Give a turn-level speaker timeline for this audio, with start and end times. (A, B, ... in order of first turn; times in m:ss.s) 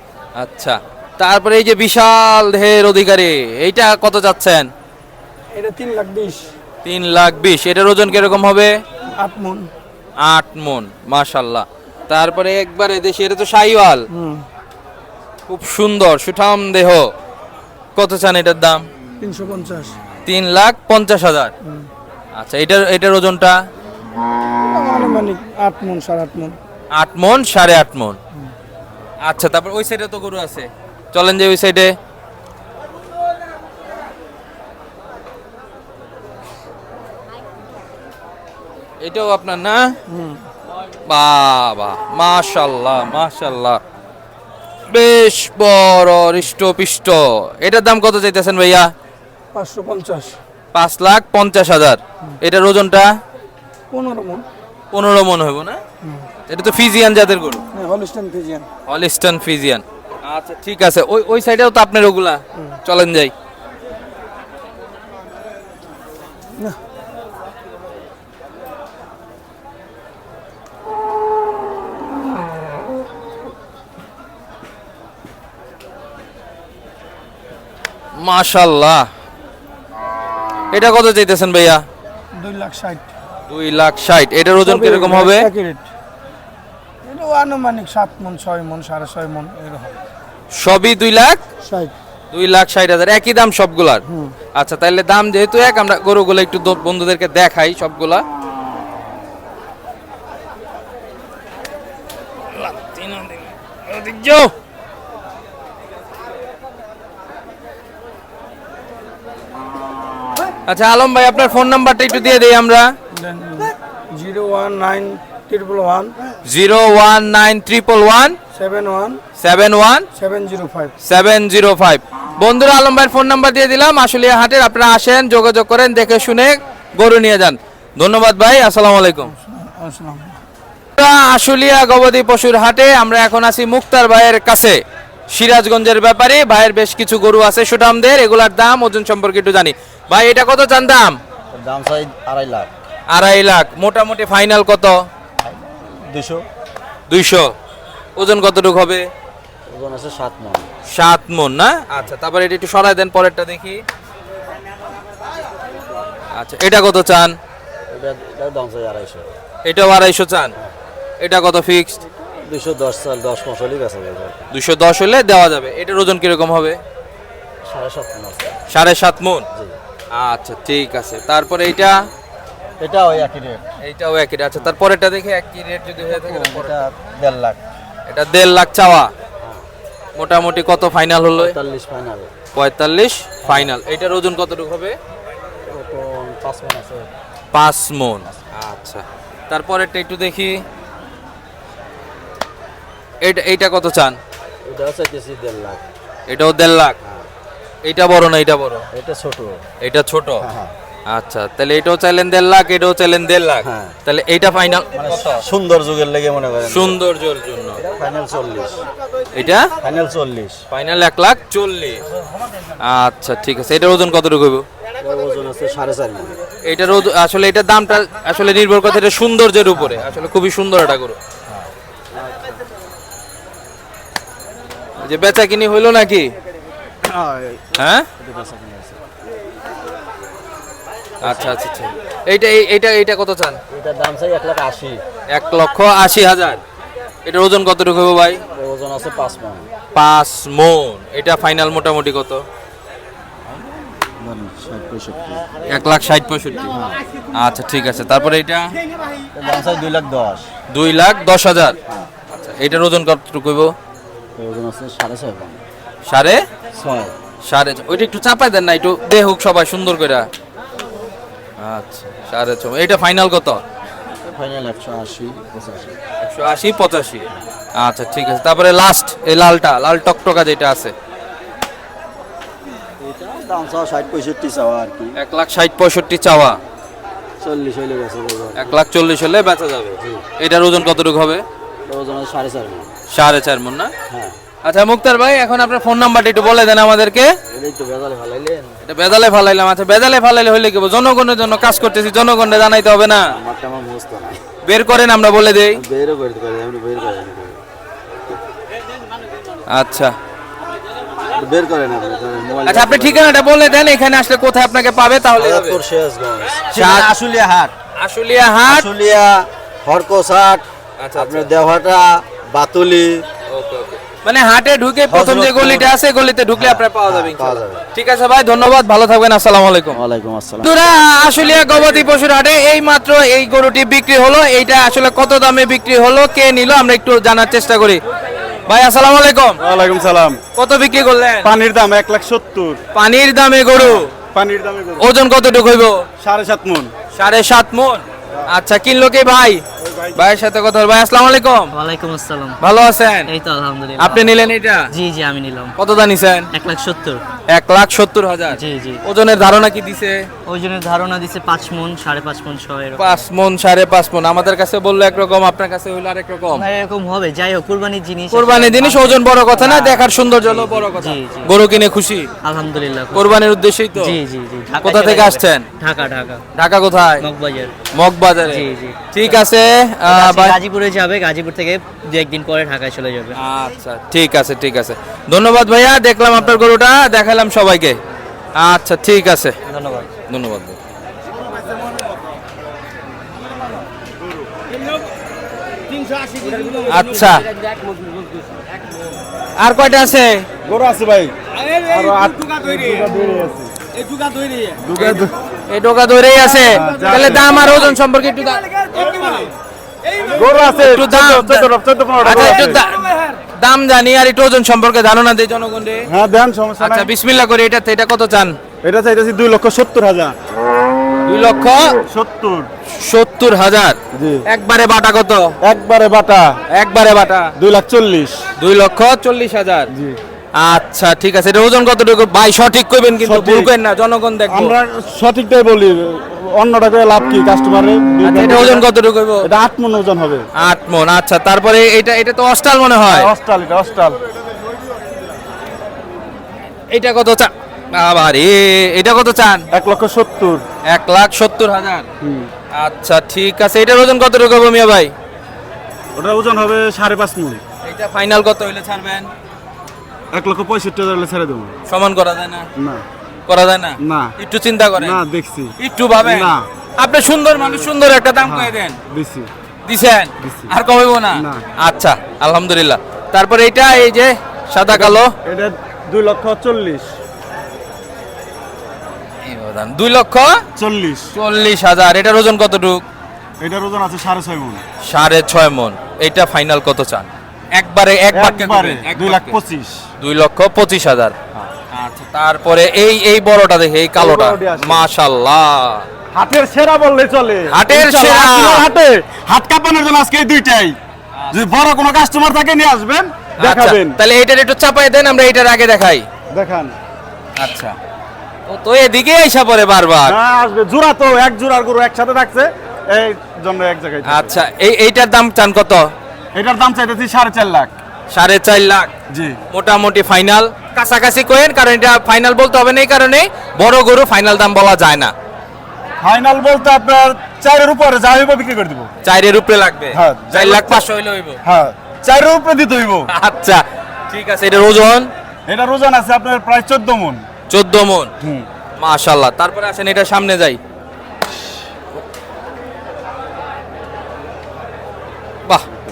0:00.4-0:04.7 A
0:05.5-0:06.5 B
0:06.8-0:08.8 A
0:09.2-0:09.7 B
0:10.2-0:14.1 A
0:14.1-0:14.5 B
0:15.5-0:17.1 A
0:18.0-0:18.9 A
0:19.2-0:20.0 B
0:20.2-0:21.5 A
0:22.4-0:23.6 A
0:24.7-0:26.6 B
0:26.9-0:28.2 A
0:29.2-0:32.0 A
0:39.0-0:39.9 A
0:40.1-0:40.4 B
0:41.1-0:43.8 A
0:44.9-0:48.9 A
0:49.5-0:50.4 B
0:50.7-0:53.1 A
0:53.9-0:54.4 B
0:54.9-0:55.8 A
0:56.0-0:56.3 B
0:56.5-0:57.6 A
0:57.7-0:58.7 B
0:58.9-1:03.3 A
1:18.2-1:19.1 A
1:20.7-1:21.8 A
1:22.4-1:23.1 B
1:23.5-1:25.5 A
1:24.6-1:25.8 B
1:27.0-1:30.0 B
1:30.5-1:31.4 A
1:31.6-1:31.9 B
1:32.3-1:38.2 A
1:34.1-1:34.4 B
1:42.5-1:44.5 A
1:50.7-1:52.9 A
1:53.1-1:56.2 B
1:56.5-1:58.4 A
1:58.5-1:59.2 B
1:59.4-2:00.1 A
2:00.1-2:00.9 B
2:01.0-2:09.3 A
2:09.3-2:10.4 B
2:11.0-2:21.2 A
2:21.5-2:22.7 C
2:23.1-2:25.1 A
2:25.4-2:26.4 C
2:27.1-2:27.5 A
2:28.2-2:29.1 A
2:29.7-2:30.7 C
2:30.9-2:33.8 A
2:36.4-2:37.4 A
2:37.9-2:39.3 C
2:39.6-2:40.5 A
2:41.2-2:42.0 A
2:42.2-2:44.4 C
2:44.5-2:46.8 A
2:47.6-2:48.6 C
2:48.7-2:49.5 A
2:50.1-2:52.1 A
2:52.8-2:53.6 C
2:53.8-2:56.7 A
2:56.1-2:57.6 C
2:58.1-2:59.1 A
2:59.4-2:59.7 C
3:00.2-3:01.6 A
3:01.3-3:02.3 C
3:02.5-3:05.0 A
3:03.4-3:03.7 C
3:05.6-3:07.1 C
3:07.5-3:10.6 A
3:13.2-3:14.2 A
3:14.6-3:15.9 C
3:16.3-3:17.0 A
3:17.0-3:17.3 C
3:17.8-3:18.9 A
3:18.9-3:19.6 C
3:19.8-3:20.5 A
3:20.4-3:20.7 C
3:21.1-3:25.4 A
3:23.6-3:24.0 C
3:24.9-3:27.0 C
3:26.7-3:27.8 A
3:27.8-3:28.9 C
3:29.3-3:29.7 A
3:29.8-3:30.6 C
3:30.7-3:32.0 A
3:32.8-3:34.6 A
3:35.0-3:36.4 C
3:36.7-3:41.2 A
3:39.7-3:40.3 C
3:41.5-3:42.6 C
3:45.0-3:46.3 A
3:47.0-3:49.0 C
3:47.8-3:48.1 A
3:51.2-3:51.6 C
3:51.2-3:53.6 A
3:53.7-3:55.0 C
3:55.3-3:56.6 A
3:57.2-3:58.4 A
3:58.5-3:59.7 C
3:59.9-4:02.4 A
4:03.5-4:05.8 C
4:05.7-4:06.7 A
4:06.7-4:07.0 C
4:07.3-4:08.7 A
4:09.3-4:10.5 C
4:10.7-4:11.8 A
4:12.3-4:13.7 A
4:14.4-4:15.6 C
4:16.1-4:16.4 A
4:16.7-4:17.1 C
4:17.4-4:20.3 A
4:21.6-4:23.6 A
4:24.2-4:26.0 C
4:26.2-4:30.9 A
4:33.0-4:35.2 C
4:35.2-4:36.6 A
4:37.4-4:38.8 C
4:38.6-4:41.4 A
4:40.0-4:40.2 C
4:41.9-4:42.9 C
4:43.1-4:43.9 A
4:44.1-4:44.4 C
4:44.6-4:47.3 A
4:47.5-4:48.8 C
4:48.8-4:53.3 A
4:53.3-4:54.4 C
4:54.6-4:55.8 A
4:55.7-4:57.6 C
4:59.7-5:00.2 A
5:01.4-5:03.3 C
5:02.7-5:05.8 A
5:05.4-5:07.7 C
5:06.7-5:07.1 A
5:08.0-5:08.9 A
5:08.7-5:13.2 C
5:11.0-5:11.5 A
5:13.5-5:20.0 A
5:15.1-5:15.9 C
5:16.6-5:17.9 C
5:19.9-5:20.7 C
5:20.6-5:28.0 A
5:28.7-5:29.6 A
5:29.6-5:30.4 D
5:30.6-5:31.5 A
5:31.4-5:32.8 D
5:32.9-5:34.1 A
5:33.8-5:35.1 D
5:35.0-5:36.1 A
5:36.2-5:36.9 D
5:37.1-5:39.6 A
5:40.2-5:41.7 A
5:41.7-5:42.6 E
5:42.6-5:43.3 A
5:43.3-5:44.3 E
5:44.0-5:44.9 A
5:44.9-5:45.8 E
5:45.8-5:46.5 A
5:46.5-5:47.2 E
5:47.5-5:50.3 A
5:48.5-5:49.0 E
5:50.5-5:53.2 E
5:53.0-5:56.7 A
5:56.5-6:01.5 E
5:58.3-6:02.3 A
6:02.4-6:03.3 E
6:03.1-6:04.2 A
6:04.0-6:06.4 E
6:04.8-6:05.7 A
6:06.6-6:07.2 A
6:07.2-6:07.7 E
6:07.9-6:10.6 A
6:08.5-6:09.4 E
6:10.1-6:13.4 E
6:13.4-6:18.0 A
6:18.6-6:19.6 A
6:19.7-6:20.1 E
6:20.3-6:20.8 A
6:26.3-6:26.7 E
6:26.8-6:27.4 A
6:29.6-6:30.5 A
6:30.7-6:33.7 D
6:34.1-6:34.6 E
6:34.8-6:35.3 D
6:35.0-6:38.6 A
6:36.7-6:37.7 D
6:38.9-6:39.5 E
6:40.3-6:42.8 D
6:40.7-6:41.7 A
6:42.2-6:46.1 A
6:46.1-6:47.1 D
6:46.8-6:48.6 A
6:48.8-6:50.4 D
6:51.3-6:52.0 A
6:52.1-6:52.7 D
6:52.9-6:55.6 A
6:54.1-6:54.4 D
6:55.6-6:56.6 D
6:56.7-6:57.5 A
6:57.6-6:58.4 D
6:58.6-6:59.9 A
6:59.9-7:00.2 D
7:00.6-7:04.7 A
7:03.2-7:03.7 D
7:04.5-7:08.9 D
7:08.2-7:09.5 A
7:09.4-7:10.5 D
7:10.6-7:13.3 A
7:13.1-7:14.2 D
7:16.9-7:19.7 A
7:19.7-7:20.6 D
7:20.8-7:22.1 A
7:22.2-7:22.5 D
7:22.7-7:25.1 A
7:26.2-7:27.6 D
7:27.8-7:29.3 A
7:30.3-7:31.8 D
7:31.9-7:32.7 A
7:32.8-7:33.0 D
7:33.5-7:35.2 A
7:34.0-7:34.3 D
7:35.0-7:36.7 D
7:35.8-7:39.0 A
7:38.4-7:39.5 D
7:39.9-7:45.3 A
7:40.4-7:40.7 D
7:41.3-7:41.6 D
7:44.9-7:47.1 D
7:49.4-7:50.6 A
7:50.8-7:51.3 D
7:51.3-7:53.0 A
7:53.6-7:54.8 D
7:55.0-7:59.6 A
7:58.3-8:00.0 D
8:00.2-8:01.4 A
8:01.9-8:06.1 A
8:04.2-8:05.1 D
8:06.3-8:11.0 D
8:07.7-8:08.9 A
8:11.4-8:11.6 A
8:11.5-8:14.2 D
8:13.6-8:16.3 A
8:16.5-8:17.0 D
8:17.6-8:18.0 A
8:18.7-8:20.4 A
8:20.2-8:24.6 D
8:24.3-8:26.1 A
8:26.5-8:28.0 D
8:28.3-8:29.1 A
8:29.3-8:29.6 D
8:29.7-8:35.3 A
8:36.2-8:39.1 D
8:39.2-8:41.6 A
8:40.1-8:41.0 D
8:41.6-8:43.3 D
8:43.3-8:45.3 A
8:45.7-8:47.4 D
8:47.7-8:48.3 A
8:48.4-8:48.7 D
8:49.0-8:50.8 A